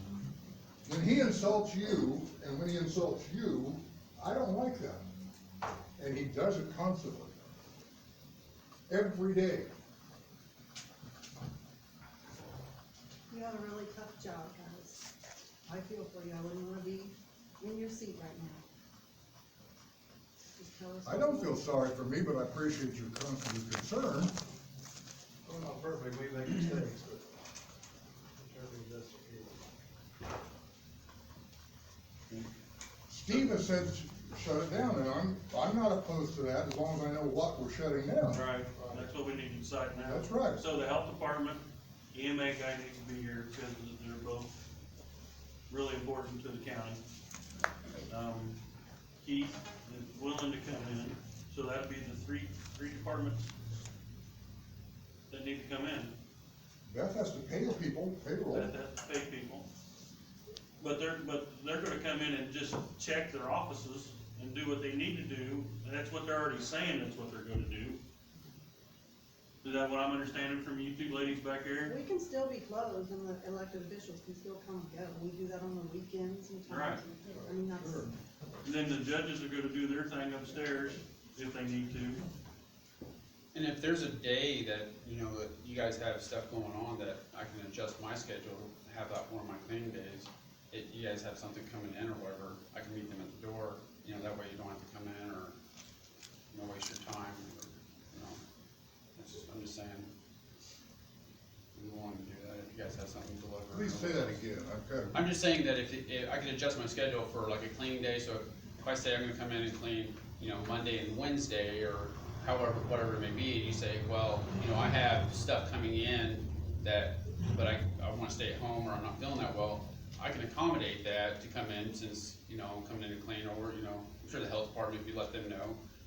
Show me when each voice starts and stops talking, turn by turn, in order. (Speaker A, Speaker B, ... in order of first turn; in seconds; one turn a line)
Speaker A: 0.8-5.0
Speaker A: 6.0-7.3
Speaker A: 8.9-9.7
Speaker B: 13.3-15.0
Speaker B: 15.7-18.6
Speaker B: 20.6-21.6
Speaker A: 21.0-24.3
Speaker C: 25.4-27.2
Speaker C: 28.4-29.6
Speaker A: 33.1-38.4
Speaker D: 38.3-41.6
Speaker C: 38.7-39.1
Speaker A: 40.0-40.6
Speaker D: 42.1-44.5
Speaker D: 45.7-47.0
Speaker D: 48.1-48.5
Speaker D: 49.2-53.5
Speaker D: 55.3-56.1
Speaker A: 56.9-58.7
Speaker D: 58.5-59.6
Speaker D: 60.8-68.0
Speaker D: 69.6-72.0
Speaker B: 71.8-78.1
Speaker D: 76.7-77.0
Speaker A: 77.3-78.1
Speaker D: 78.6-82.2
Speaker E: 83.5-95.5
Speaker E: 96.5-98.4
Speaker E: 99.2-100.1
Speaker E: 101.7-104.3
Speaker A: 103.7-105.2
Speaker E: 105.1-125.8